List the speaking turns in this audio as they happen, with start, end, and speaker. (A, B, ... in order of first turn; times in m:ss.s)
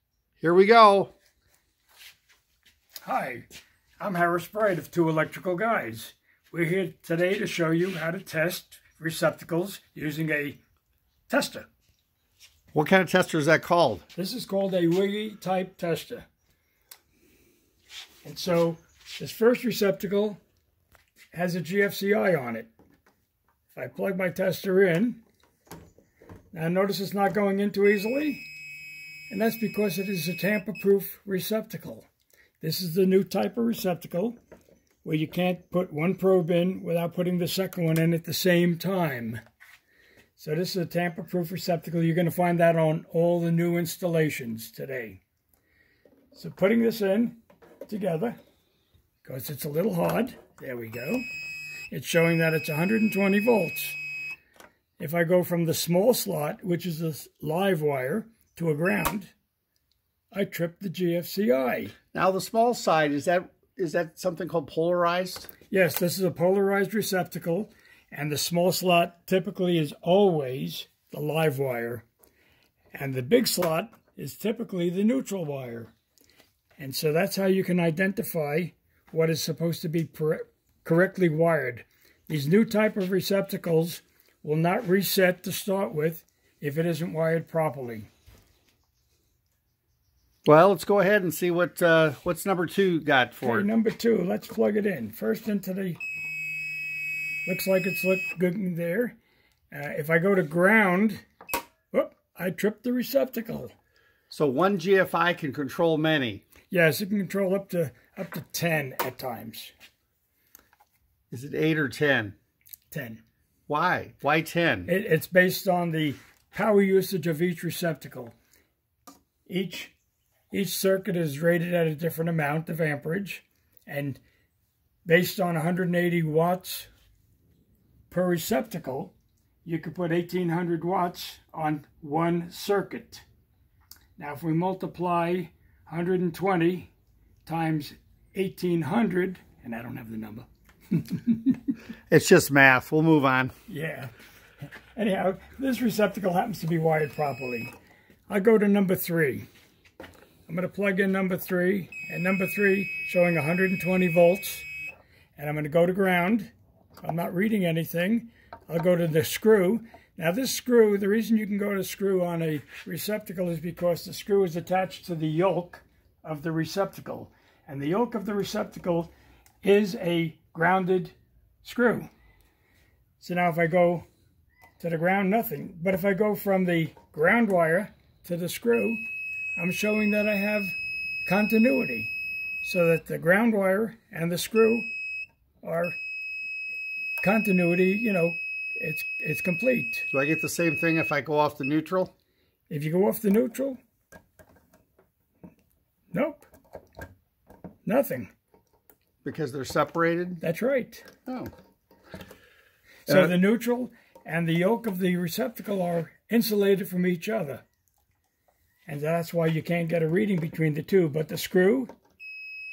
0:00.4-0:01.1 A
0:03.0-0:03.4 B
0:04.0-0:10.6 B
0:11.3-0:11.7 B
0:12.7-0:14.0 A
0:14.2-0:16.2 B
0:18.2-0:20.4 B
0:21.3-0:22.7 B
0:23.7-0:25.2 B
0:26.5-0:28.4 B
0:29.3-0:32.1 B
0:32.6-0:34.4 B
0:35.0-0:39.4 B
0:40.4-0:45.2 B
0:46.3-0:48.4 B
0:49.2-0:51.2 B
0:51.9-0:54.0 B
0:55.0-0:59.3 B
1:00.3-1:01.9 B
1:02.1-1:05.5 A
1:05.7-1:12.0 B
1:12.9-1:15.9 B
1:16.8-1:28.1 B
1:30.4-1:33.7 A
1:33.4-1:36.0 B
1:37.4-1:39.2 B
1:39.7-1:41.2 B
1:41.9-1:43.7 B
1:44.3-1:46.4 A
1:46.7-1:49.7 B
1:51.3-1:52.3 A
1:52.9-1:53.2 B
1:53.7-1:54.9 A
1:54.9-1:58.3 B
1:59.5-1:59.9 B
2:00.5-2:04.2 B
2:05.0-2:06.9 B
2:08.1-2:09.1 B
2:09.6-2:13.2 B
2:14.2-2:16.9 B
2:17.4-2:21.6 B
2:22.1-2:23.5 A
2:23.7-2:24.1 B
2:24.9-2:27.7 B
2:28.3-2:29.4 B
2:30.5-2:34.7 B
2:35.4-2:49.1 B
2:49.6-2:52.1 B
2:53.2-2:54.0 B
2:54.8-2:59.0 B
2:59.6-3:02.1 B
3:02.6-3:04.9 B
3:05.6-3:06.0 B
3:07.2-3:10.1 B
3:10.1-3:12.1 A
3:12.7-3:13.8 B
3:16.1-3:16.5 B
3:17.8-3:18.3 B
3:19.2-3:20.4 A
3:20.4-3:21.1 B
3:21.3-3:21.5 A
3:23.1-3:23.3 A
3:23.1-3:27.6 B
3:28.8-3:31.9 B